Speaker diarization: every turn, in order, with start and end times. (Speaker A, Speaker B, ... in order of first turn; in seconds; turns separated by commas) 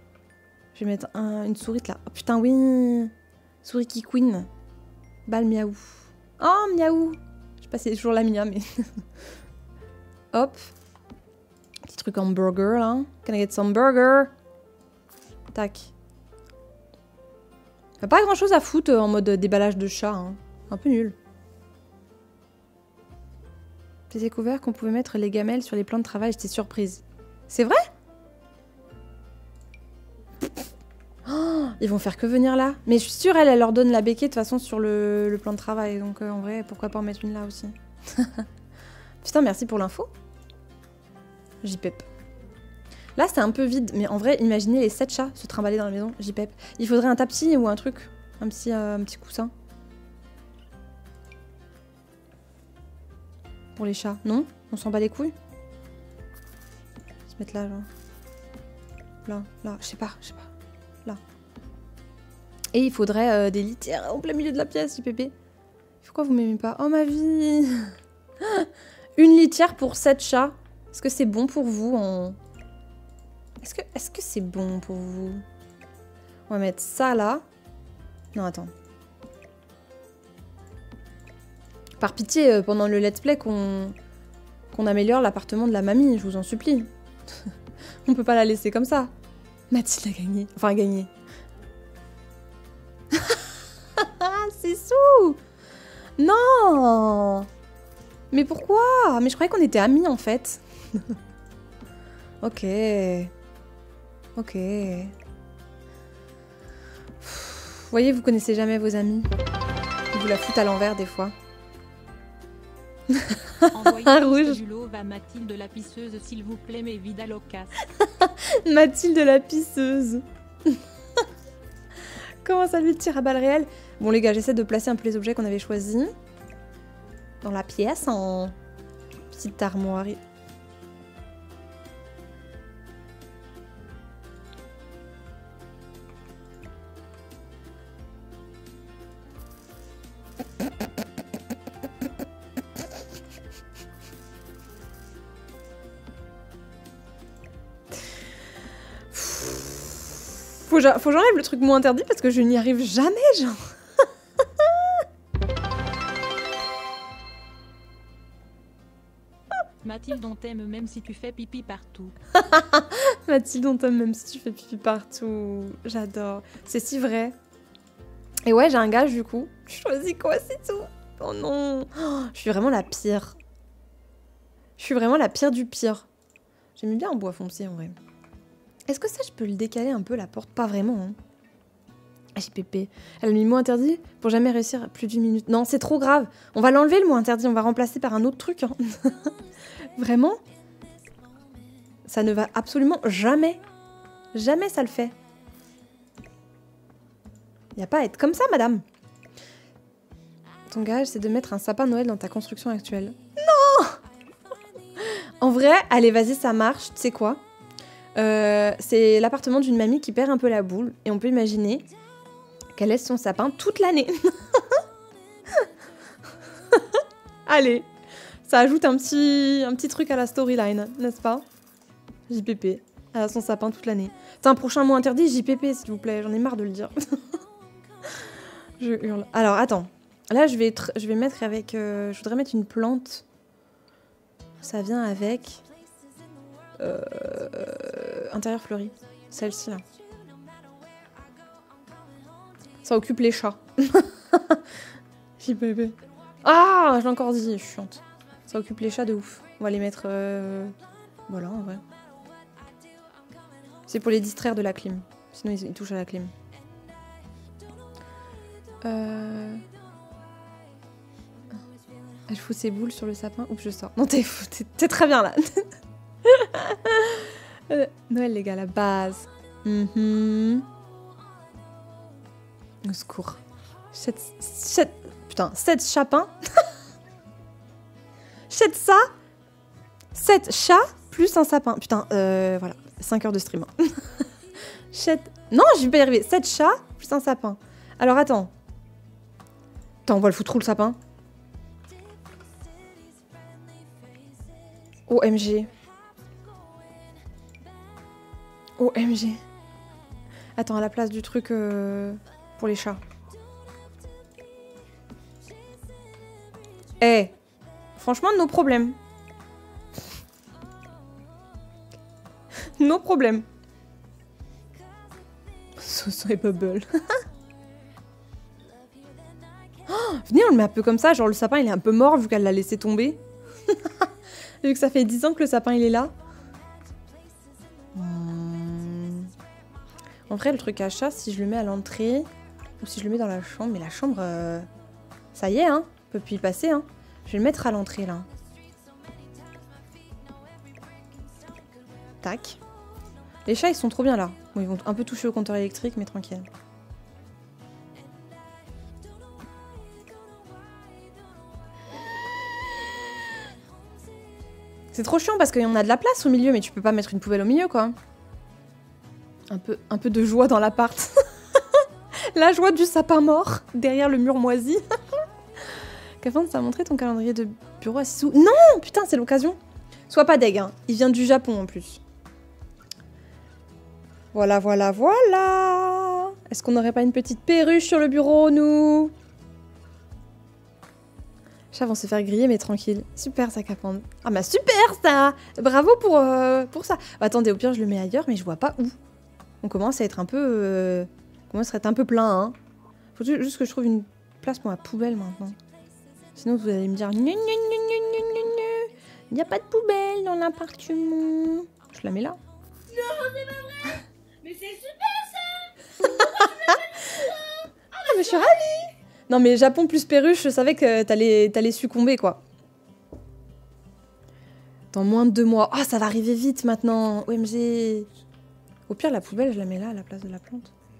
Speaker A: 0.7-3.1, Speaker A: 3.6-4.5, Speaker A: 5.3-9.0, Speaker A: 10.3-10.7, Speaker A: 11.8-14.3, Speaker A: 15.5-15.9, Speaker A: 18.0-21.1, Speaker A: 24.1-27.9, Speaker A: 31.2-38.5, Speaker A: 39.2-40.1, Speaker A: 41.6-42.0, Speaker A: 43.1-49.5, Speaker A: 53.8-55.3, Speaker A: 57.3-57.9, Speaker A: 59.2-60.5, Speaker A: 62.7-65.3, Speaker A: 66.0-72.4, Speaker A: 73.6-75.4, Speaker A: 76.5-77.4, Speaker A: 78.3-78.7, Speaker A: 82.0-84.0, Speaker A: 84.7-87.5, Speaker A: 88.0-89.1, Speaker A: 89.7-91.1, Speaker A: 93.1-95.4, Speaker A: 96.2-97.5, Speaker A: 98.3-101.2, Speaker A: 102.4-103.3, Speaker A: 104.3-105.1, Speaker A: 107.2-109.3, Speaker A: 110.1-111.3, Speaker A: 113.1-114.6, Speaker B: 113.7-117.7, Speaker A: 118.0-121.2, Speaker A: 122.4-126.1, Speaker A: 127.4-128.5, Speaker A: 129.3-130.2, Speaker A: 149.1-153.7, Speaker A: 154.6-154.9, Speaker B: 159.8-162.1, Speaker A: 162.3-167.3, Speaker A: 168.4-173.4, Speaker A: 174.8-176.1, Speaker A: 176.8-177.9, Speaker A: 178.9-181.2, Speaker A: 182.3-189.3, Speaker A: 189.9-190.4, Speaker A: 192.1-193.6, Speaker A: 194.3-195.2, Speaker A: 197.8-198.8, Speaker A: 200.7-204.0, Speaker A: 205.0-207.4, Speaker A: 208.1-211.9, Speaker A: 212.8-214.8, Speaker A: 216.7-217.9, Speaker A: 218.5-221.4, Speaker A: 222.3-227.4, Speaker A: 228.1-233.2, Speaker A: 234.6-235.6, Speaker A: 236.8-239.8, Speaker C: 240.1-242.6, Speaker A: 242.8-244.6, Speaker A: 245.4-250.8, Speaker A: 251.3-251.8, Speaker C: 252.7-253.8, Speaker A: 253.9-256.3, Speaker A: 258.8-259.6, Speaker C: 261.5-262.2, Speaker A: 262.3-265.7, Speaker A: 266.2-270.7, Speaker A: 272.8-273.4, Speaker A: 273.9-276.7, Speaker A: 278.5-279.1, Speaker A: 280.1-284.3, Speaker A: 284.9-288.5, Speaker A: 290.1-291.0, Speaker C: 291.9-295.0, Speaker A: 295.1-295.7, Speaker C: 295.7-297.2, Speaker A: 298.8-299.4, Speaker A: 300.6-303.0, Speaker C: 303.4-304.8, Speaker C: 305.5-306.6, Speaker A: 307.0-307.3, Speaker A: 307.9-309.0, Speaker A: 312.6-313.4, Speaker C: 314.9-315.2, Speaker A: 315.8-317.2, Speaker C: 318.5-319.9, Speaker A: 319.9-324.1, Speaker A: 324.6-326.1, Speaker C: 326.8-327.9, Speaker A: 327.9-329.3, Speaker A: 330.3-334.7, Speaker A: 335.3-338.3, Speaker C: 338.5-342.2, Speaker A: 342.2-342.6, Speaker A: 343.4-346.5, Speaker C: 347.9-354.6, Speaker A: 354.9-357.9, Speaker A: 359.5-369.6, Speaker A: 370.1-372.0, Speaker A: 374.3-379.1, Speaker A: 381.7-388.9, Speaker A: 389.6-392.6, Speaker A: 393.1-395.6, Speaker A: 396.3-402.4, Speaker C: 403.0-403.7, Speaker C: 404.4-405.3, Speaker A: 406.0-407.3, Speaker A: 407.9-412.4, Speaker A: 414.9-418.1, Speaker A: 418.9-420.7